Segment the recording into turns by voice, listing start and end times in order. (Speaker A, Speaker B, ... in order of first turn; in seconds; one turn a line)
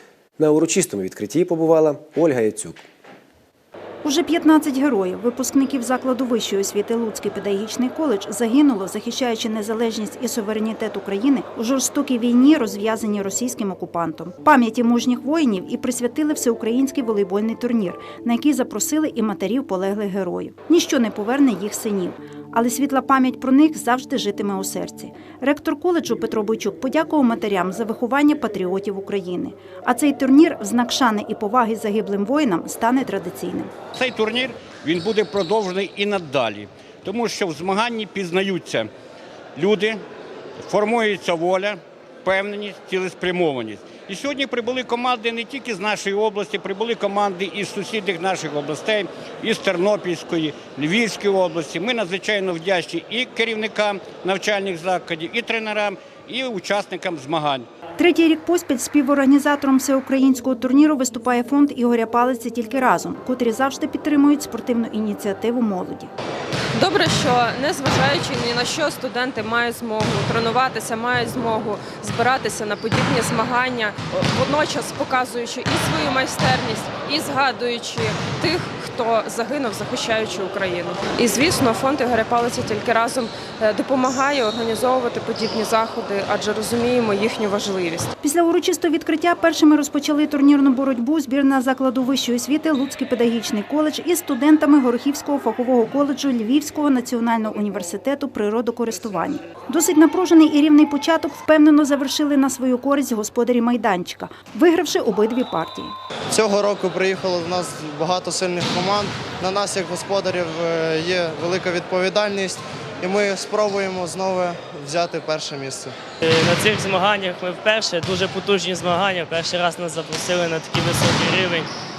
Speaker A: 0.4-2.8
Speaker B: 4.0-33.7
Speaker C: 33.9-38.9
Speaker C: 39.5-40.0
Speaker C: 40.6-57.7
Speaker B: 58.0-66.1
Speaker D: 66.7-88.1
Speaker B: 88.2-105.9
Speaker E: 106.3-115.9
Speaker F: 116.2-121.7